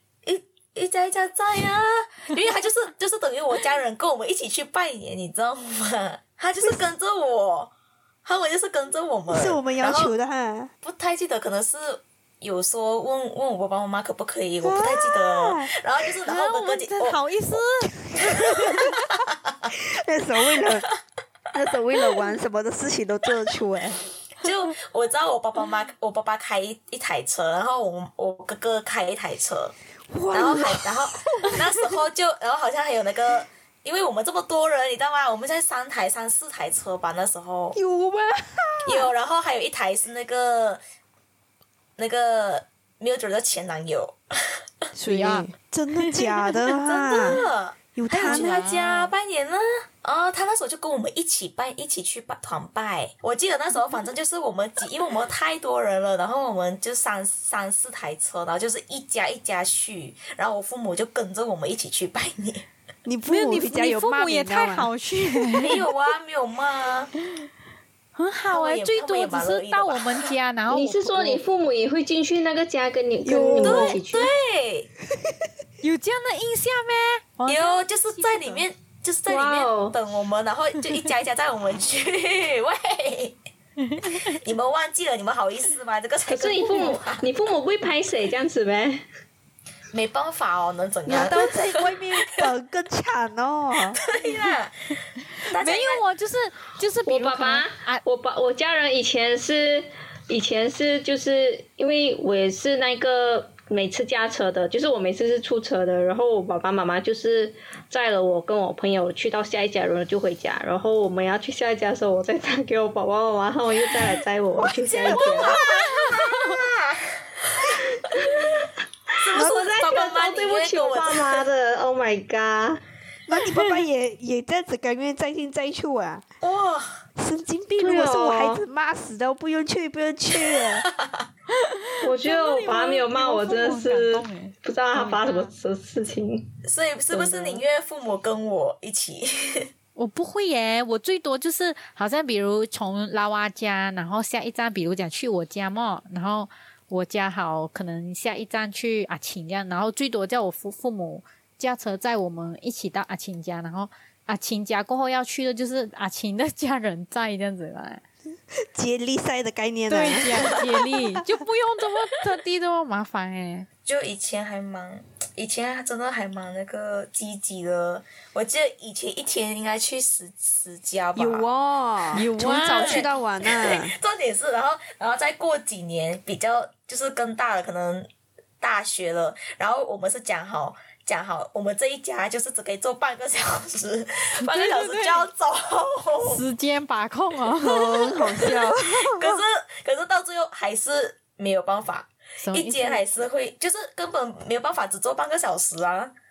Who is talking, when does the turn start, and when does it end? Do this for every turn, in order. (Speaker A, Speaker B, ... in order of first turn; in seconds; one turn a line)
Speaker A: 0.2-7.7
Speaker B: 6.6-6.9
Speaker A: 8.2-10.1
Speaker B: 9.3-10.7
Speaker A: 10.8-17.2
Speaker B: 14.6-15.8
Speaker C: 16.2-18.9
Speaker A: 18.4-19.1
Speaker B: 19.7-20.9
Speaker B: 21.5-24.0
Speaker A: 24.4-29.7
Speaker B: 30.1-31.7
Speaker A: 30.3-37.8
Speaker B: 37.7-39.1
Speaker A: 38.9-40.8
Speaker A: 42.0-44.2
Speaker B: 44.9-47.4
Speaker C: 45.1-46.2
Speaker A: 46.6-62.7
Speaker B: 47.9-48.7
Speaker C: 48.1-49.1
Speaker B: 63.0-65.6
Speaker C: 63.3-65.8
Speaker A: 65.6-67.1
Speaker C: 68.1-71.4
Speaker A: 68.5-70.3
Speaker D: 70.7-74.3
Speaker B: 73.2-74.0
Speaker A: 73.6-74.9
Speaker C: 75.8-78.6
Speaker A: 77.5-83.4
Speaker D: 79.3-80.0
Speaker C: 83.8-84.2
Speaker A: 84.0-87.3
Speaker D: 86.2-89.0
Speaker A: 89.9-91.9
Speaker B: 91.0-94.0
Speaker A: 93.9-96.0
Speaker C: 95.5-98.0
Speaker D: 97.0-115.6
Speaker A: 115.0-117.1
Speaker B: 115.2-115.7
Speaker A: 119.2-121.4
Speaker D: 119.3-122.8
Speaker B: 119.3-119.6
Speaker B: 123.3-126.2
Speaker C: 123.4-123.7
Speaker A: 126.4-127.0
Speaker B: 127.2-130.8
Speaker D: 127.8-128.6
Speaker A: 130.4-131.2
Speaker C: 131.6-135.5
Speaker D: 132.0-136.5
Speaker A: 136.6-139.7
Speaker D: 137.1-137.6
Speaker C: 139.9-158.0
Speaker B: 158.6-160.6
Speaker C: 159.9-163.7
Speaker A: 163.8-171.4
Speaker B: 171.2-173.9
Speaker C: 172.2-173.0
Speaker A: 172.8-178.1
Speaker A: 178.6-186.4
Speaker C: 184.4-185.2
Speaker C: 186.2-188.5
Speaker B: 187.6-189.4
Speaker A: 188.4-196.1
Speaker C: 192.4-193.0